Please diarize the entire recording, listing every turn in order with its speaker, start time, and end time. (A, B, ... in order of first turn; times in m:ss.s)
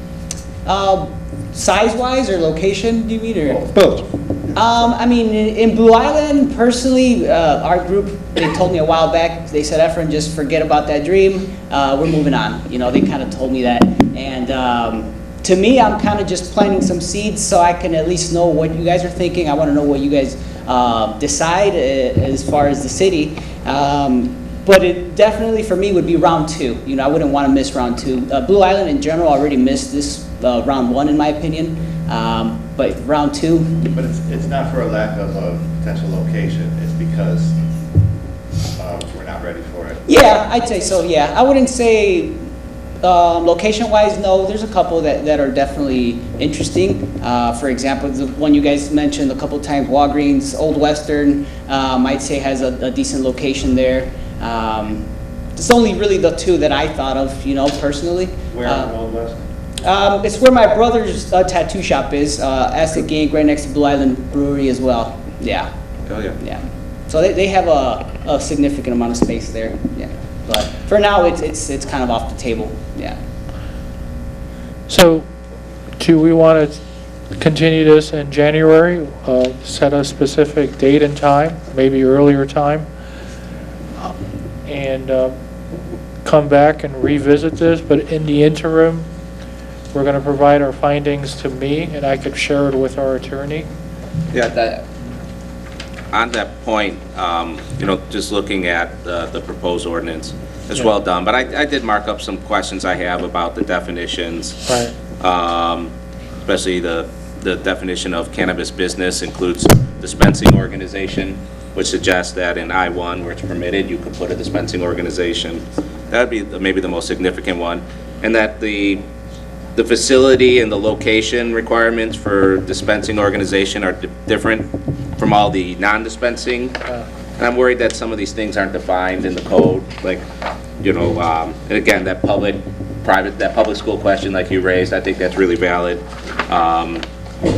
0:00.6-0:03.6 A
0:03.4-0:04.6 B
0:04.5-0:33.8 A
0:33.8-0:37.6 B
0:38.8-0:40.0 B
0:40.1-0:42.4 A
0:43.0-0:59.0 A
0:58.5-0:59.5 B
0:59.8-1:05.7 A
1:06.1-1:06.4 C
1:06.4-1:13.2 A
1:14.9-1:15.3 D
1:16.0-1:16.8 D
1:17.4-1:22.9 D
1:24.7-1:25.4 D
1:26.2-1:29.1 D
1:29.9-1:33.7 D
1:34.3-1:34.9 C
1:36.1-1:44.6 C
1:44.7-1:44.9 D
1:45.2-1:45.9 C
1:46.4-1:59.0 C
1:59.8-2:04.7 C
2:05.2-2:06.8 C
2:07.4-2:10.2 C
2:10.8-2:17.0 C